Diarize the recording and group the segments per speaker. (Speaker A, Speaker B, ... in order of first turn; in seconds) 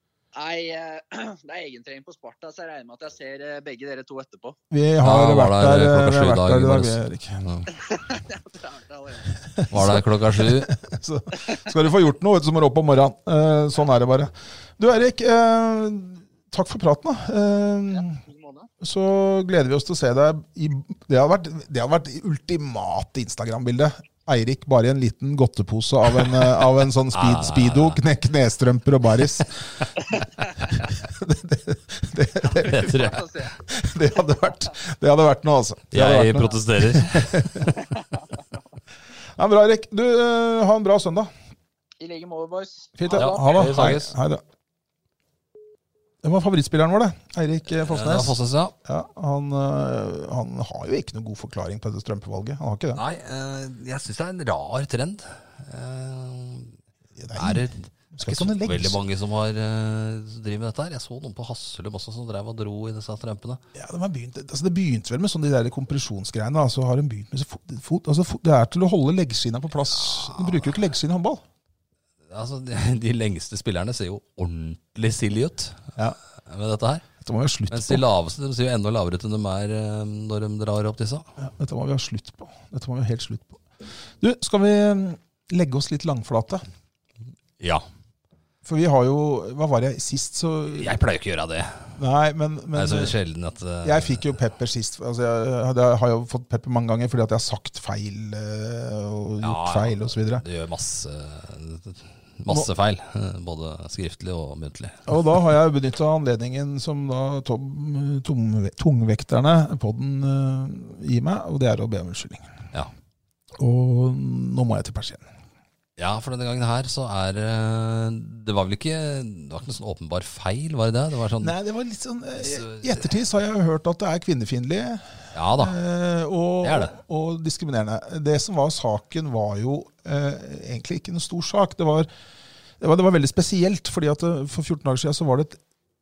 Speaker A: 0.3-4.6, 7.7-9.4, 17.9-18.7, 30.2-30.8, 32.5-33.5, 37.8-38.2, 42.0-43.8
Speaker B: 4.7-7.5, 9.6-18.2, 18.8-29.9, 30.8-33.1, 33.7-37.8, 39.4-41.3, 43.0-44.4, 46.2-53.0, 57.1-59.0, 63.7-71.4, 77.2-78.0, 81.4-83.6, 84.2-86.6, 88.6-91.0, 92.0-93.2, 93.8-100.4, 105.1-112.5, 113.6-115.3, 121.4-132.1, 132.8-135.6
Speaker C: 5.0-7.7, 9.7-10.7, 27.1-28.0, 32.6-33.2, 35.9-37.7, 43.1-44.1, 47.7-48.7, 52.9-56.7, 57.3-63.6, 72.3-75.9, 76.5-77.0, 77.7-81.3, 87.6-87.8, 90.7-91.9, 92.7-94.2, 99.4-105.1, 116.0-121.5, 122.5-123.0, 125.3-125.8, 126.6-127.0